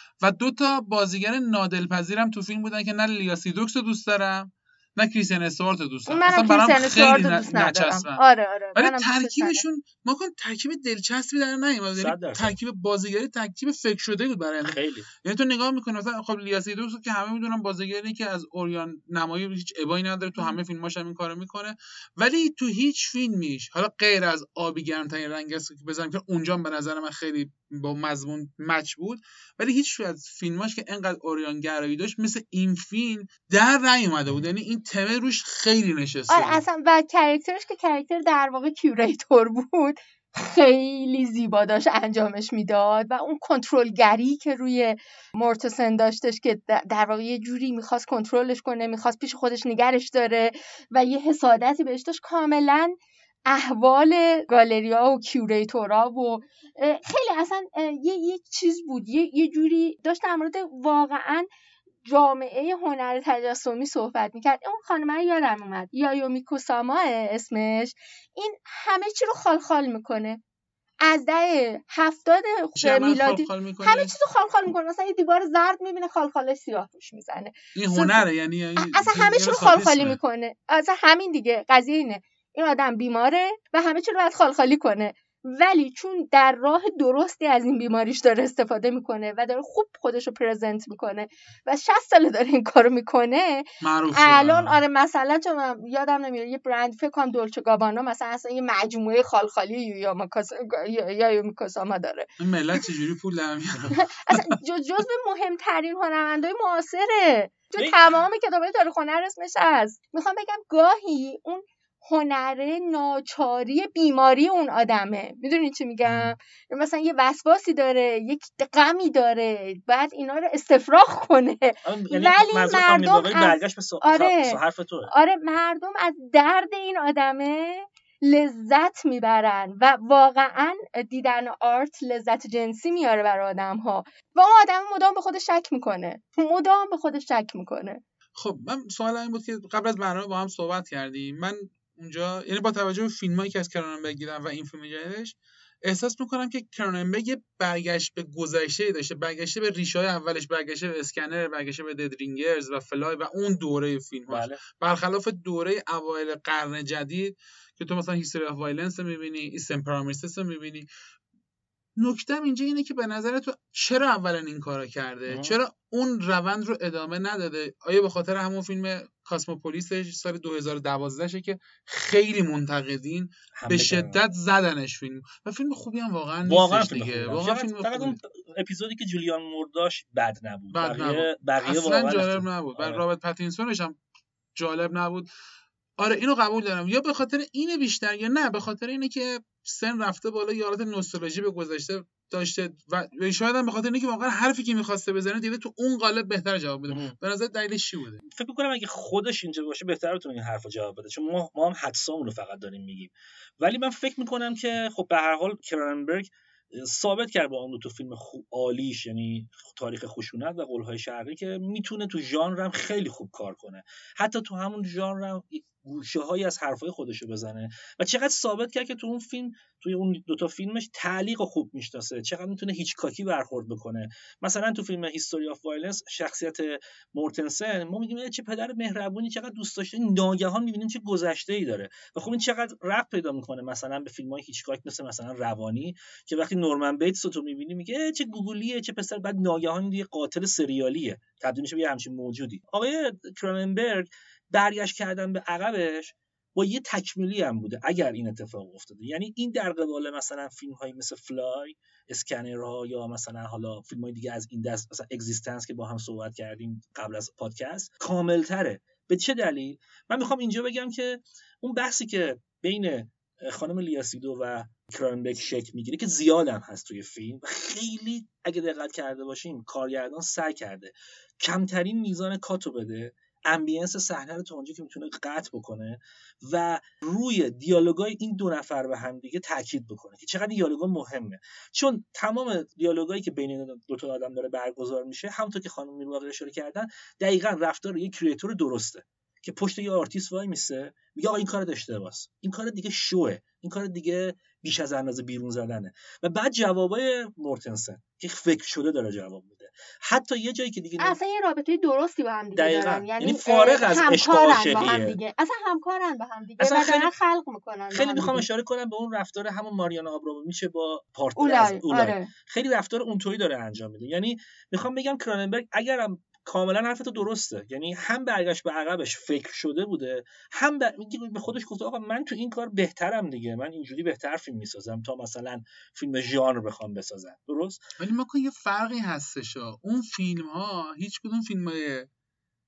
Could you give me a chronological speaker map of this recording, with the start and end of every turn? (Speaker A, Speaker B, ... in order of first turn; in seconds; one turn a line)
Speaker A: 0.2-8.2
Speaker B: 6.1-9.6
Speaker A: 8.7-36.6
Speaker C: 11.9-12.6
Speaker C: 14.6-15.1
Speaker B: 36.3-61.5
Speaker B: 62.0-70.4
Speaker B: 71.0-78.2
Speaker A: 72.8-74.1
Speaker A: 77.7-80.2
Speaker B: 78.8-102.8
Speaker A: 93.8-94.8
Speaker A: 102.4-104.6
Speaker B: 103.9-138.0
Speaker C: 107.8-108.0
Speaker C: 116.0-116.3
Speaker C: 121.8-125.1
Speaker A: 138.3-160.8
Speaker C: 154.3-154.6
Speaker A: 162.0-178.2
Speaker C: 165.3-165.6
Speaker C: 173.6-174.2
Speaker C: 176.4-183.0
Speaker A: 180.7-183.9
Speaker A: 184.6-185.3
Speaker A: 186.0-198.2
Speaker C: 196.9-197.1
Speaker C: 198.2-301.2
Speaker B: 301.0-308.4
Speaker C: 302.6-305.2
Speaker C: 306.6-307.1
Speaker C: 307.9-327.8
Speaker B: 311.4-312.3
Speaker A: 328.0-332.1